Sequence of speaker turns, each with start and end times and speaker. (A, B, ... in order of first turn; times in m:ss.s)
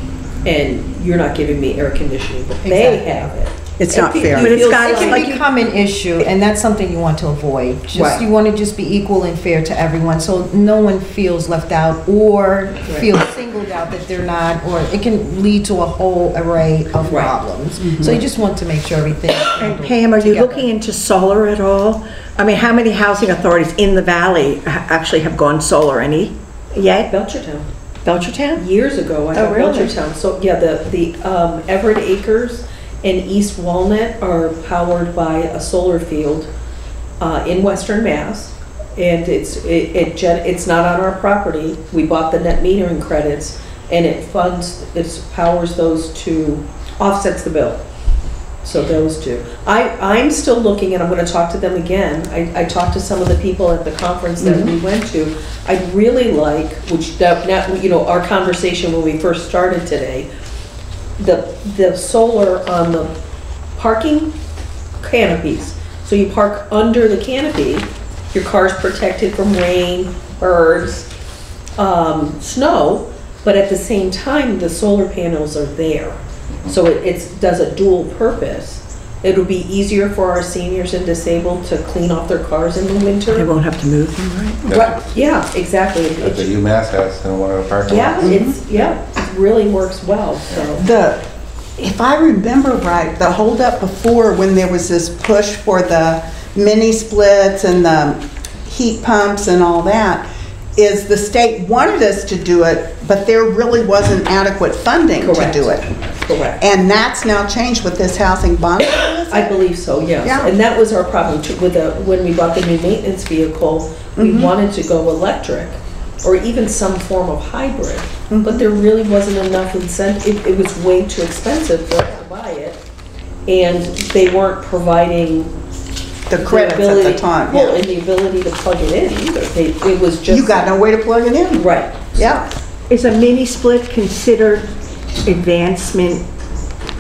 0:00.4-0:05.3 A
0:02.6-0:03.1 B
0:03.8-0:04.8 C
0:04.3-0:05.4 D
0:04.8-0:20.7 B
0:07.9-0:08.2 A
0:17.1-0:17.3 A
0:17.8-0:18.2 C
0:19.6-0:27.1 D
0:27.1-0:27.7 A
0:28.0-0:28.6 D
0:28.6-0:36.5 A
0:29.3-0:29.9 D
0:37.2-0:47.8 A
0:48.6-1:00.3 A
0:54.4-0:54.7 C
1:01.2-1:03.1 A
1:03.8-1:04.3 A
1:05.0-1:11.1 A
1:11.8-1:23.5 A
1:23.3-1:24.6 D
1:24.6-1:25.0 E
1:24.7-1:25.0 C
1:25.1-1:26.5 A
1:26.2-1:28.3 E
1:27.9-1:30.8 A
1:28.2-1:28.6 C
1:30.8-1:31.2 C
1:31.8-1:40.2 C
1:40.8-1:45.9 C
1:45.2-1:46.6 A
1:46.6-1:49.6 C
1:49.3-2:02.8 A
1:50.2-1:50.5 C
1:54.2-1:54.5 C
1:58.3-1:58.7 C
2:03.5-2:05.5 A
2:06.3-2:07.8 C
2:06.3-2:10.7 A
2:10.3-2:12.5 C
2:11.5-2:12.4 A
2:12.9-2:14.7 D
2:15.2-2:16.2 D